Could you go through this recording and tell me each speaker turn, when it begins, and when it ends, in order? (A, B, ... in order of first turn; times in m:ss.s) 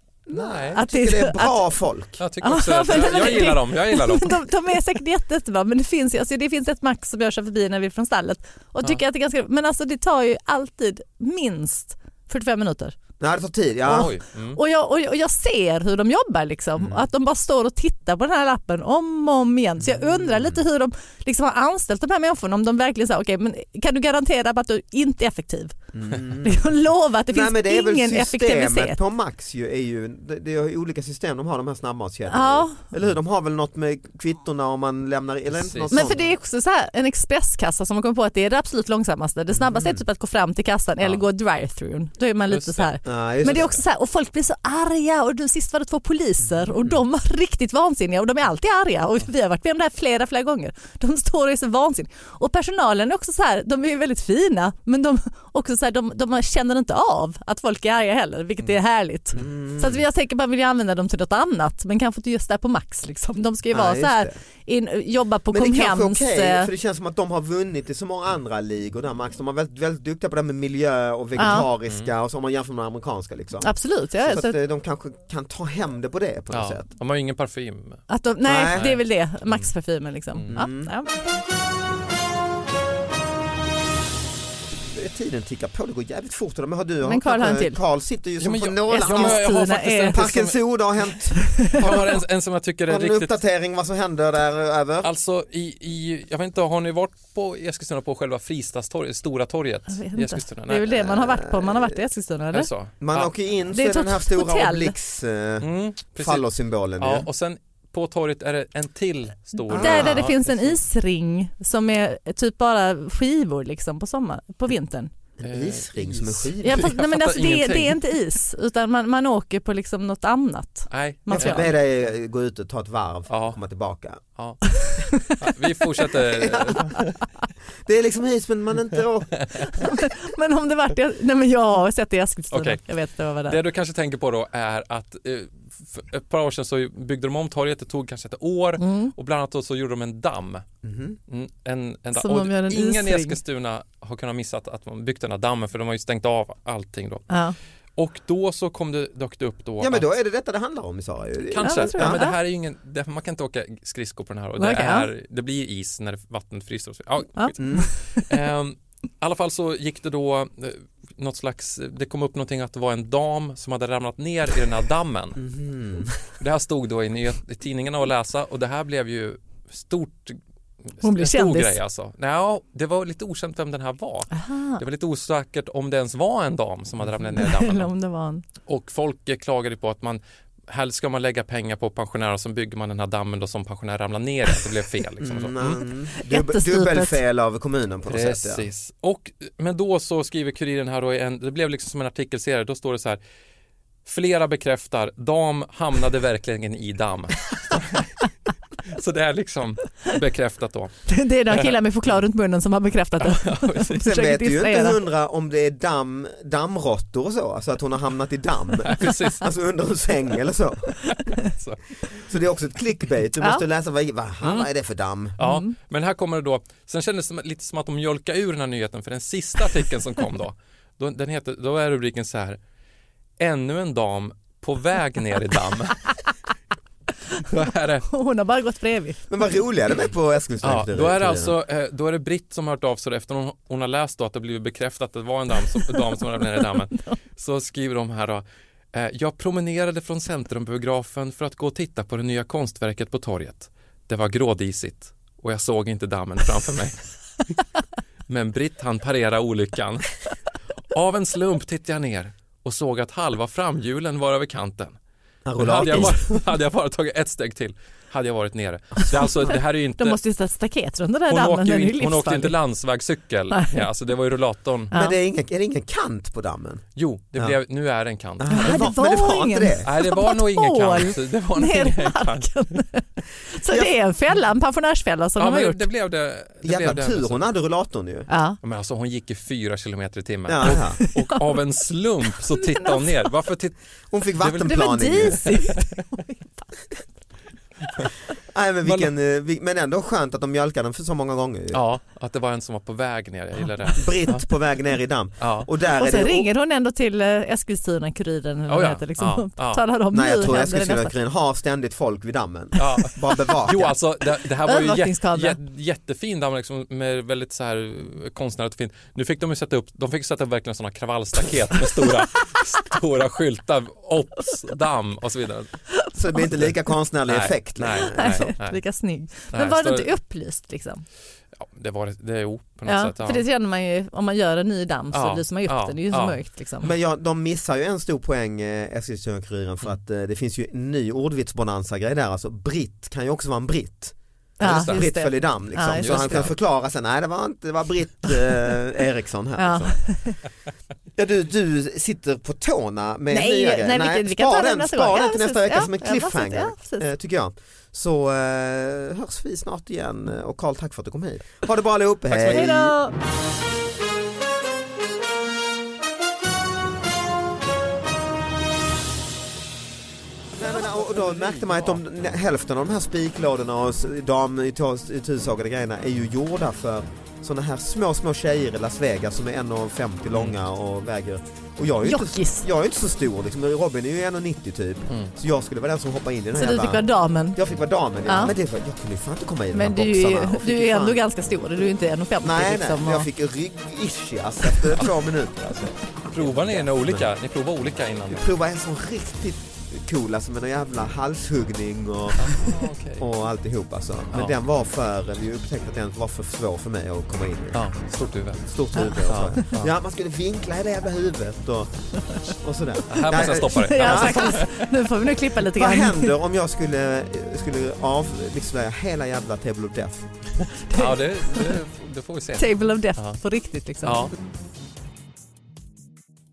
0:00.3-0:02.2 A
0:00.3-0:00.8 B
0:00.8-0:01.6 C
0:02.2-0:04.4 B
0:02.4-0:13.0 C
0:13.2-0:14.1 A
0:13.9-0:14.6 B
0:13.9-0:25.8 C
0:16.8-0:17.0 A
0:19.9-0:20.6 A
0:25.9-0:26.7 A
0:26.4-0:29.0 C
0:27.3-0:36.2 A
0:32.3-0:32.9 C
0:35.5-0:36.2 B
0:35.9-1:06.7 C
0:39.6-0:40.0 A
0:42.5-0:42.9 B
0:43.0-0:43.8 A
0:59.4-1:00.0 A
1:03.7-1:04.4 A
1:05.5-1:16.9 A
1:11.4-1:11.7 C
1:11.5-1:12.1 B
1:13.6-1:14.6 C
1:16.5-1:18.1 B
1:18.1-1:21.4 C
1:18.4-1:18.8 A
1:18.8-1:19.7 B
1:20.5-1:20.9 A
1:24.9-1:29.5 A
1:27.0-1:27.8 C
1:28.4-1:30.6 B
1:28.9-1:30.3 C
1:30.1-1:32.2 A
1:31.4-1:31.8 C
1:31.7-1:33.4 B
1:32.9-1:35.1 A
1:35.0-1:40.9 B
1:39.9-1:42.7 C
1:40.9-1:41.9 A
1:42.5-1:43.3 B
1:43.0-1:47.3 A
1:43.7-1:45.0 C
1:45.6-1:46.5 B
1:47.0-1:50.8 B
1:49.6-1:55.1 C
1:49.7-1:50.3 A
1:55.4-1:56.9 A
1:55.4-1:58.0 B
1:56.6-2:01.7 C
2:00.9-2:01.7 B
2:01.4-2:04.2 A
2:03.3-2:03.6 B
2:04.4-2:04.6 B
2:05.4-2:07.1 B
2:06.4-2:06.7 A
2:07.8-2:10.0 A
2:09.8-2:13.6 C
2:12.5-2:12.8 B
2:13.4-2:20.7 B
2:18.8-2:19.1 C
2:20.8-2:21.2 A
2:21.3-2:27.3 B
2:22.1-2:23.4 C
2:27.3-2:27.6 C
2:28.0-2:30.1 B
2:29.8-2:32.3 A
2:31.5-2:45.4 B
2:31.6-2:32.4 C
2:34.6-2:35.1 C
2:37.4-2:38.3 C
2:37.6-2:37.9 A
2:45.4-2:46.2 A
2:46.4-2:50.4 B
2:51.0-2:57.9 B
2:51.0-2:51.8 C
2:54.3-2:54.8 C
2:57.2-2:58.4 C
2:58.6-3:05.8 B
3:05.2-3:08.7 A
3:06.2-3:07.2 C
3:08.1-3:13.2 B
3:14.0-3:18.1 B
3:18.9-3:21.0 B
3:21.1-3:25.0 C
3:21.5-3:21.8 B
3:23.2-3:24.1 B
3:24.0-3:31.0 A
3:28.8-3:29.5 B
3:31.4-3:32.2 B
3:32.3-3:35.4 A
3:34.4-3:34.7 B
3:35.4-3:42.6 B
3:35.4-3:35.7 C
3:43.4-3:46.0 B
3:47.5-3:48.1 B
3:48.1-3:49.2 C
3:49.3-3:51.5 A
3:50.6-4:07.0 B
4:08.3-4:10.1 B
4:10.9-4:15.0 B
4:15.4-4:16.4 A
4:15.6-4:20.2 B
4:20.0-4:22.6 C
4:21.3-4:24.9 B
4:23.5-4:23.9 C
4:24.9-4:26.8 A
4:27.0-4:28.8 B
4:28.4-4:29.9 A
4:28.5-4:35.8 C
4:29.8-4:32.6 B
4:35.4-4:37.4 B
4:36.6-4:38.3 A
4:38.3-4:38.6 C
4:38.6-4:43.8 B
4:40.5-4:41.0 A
4:40.6-4:41.4 C
4:42.6-4:43.1 C
4:44.1-4:45.4 A
4:44.4-4:46.0 B
4:44.7-4:46.4 C
4:48.5-4:51.8 A
4:48.8-4:49.1 B
4:51.7-4:54.5 B
4:53.9-4:56.5 A
4:55.4-4:55.7 B
4:55.9-5:01.1 C
4:58.7-4:59.8 B
5:00.1-5:04.0 A
5:02.8-5:15.7 B
5:04.6-5:05.6 C
5:16.2-5:18.5 A
5:17.3-5:18.8 B
5:18.1-5:21.0 C
5:19.5-5:20.1 B
5:21.6-5:23.4 B
5:22.9-5:26.9 C
5:25.1-5:26.4 B
5:26.8-5:40.0 A
5:34.6-5:36.5 C
5:34.6-5:35.0 B
5:36.0-5:36.6 B
5:39.6-5:40.4 C
5:41.2-5:52.9 A
5:43.3-5:47.1 C
5:52.3-5:52.7 B
5:52.5-5:53.1 C
6:00.6-6:21.2 A
6:01.1-6:02.0 B
6:12.0-6:12.6 C
6:16.6-6:17.6 C
6:18.3-6:18.5 C
6:19.7-6:23.3 C
6:22.4-6:27.3 A
6:26.3-6:28.4 B
6:28.3-6:37.8 A
6:32.4-6:33.2 B
6:37.7-6:38.6 B
6:38.6-6:41.9 A
6:39.2-6:39.9 B
6:42.5-6:44.6 A
6:43.1-6:44.9 B
6:43.2-6:46.3 C
6:45.7-6:50.3 A
6:50.9-6:51.7 C
6:50.9-6:53.4 B
6:52.6-6:54.3 C
6:54.0-6:54.3 B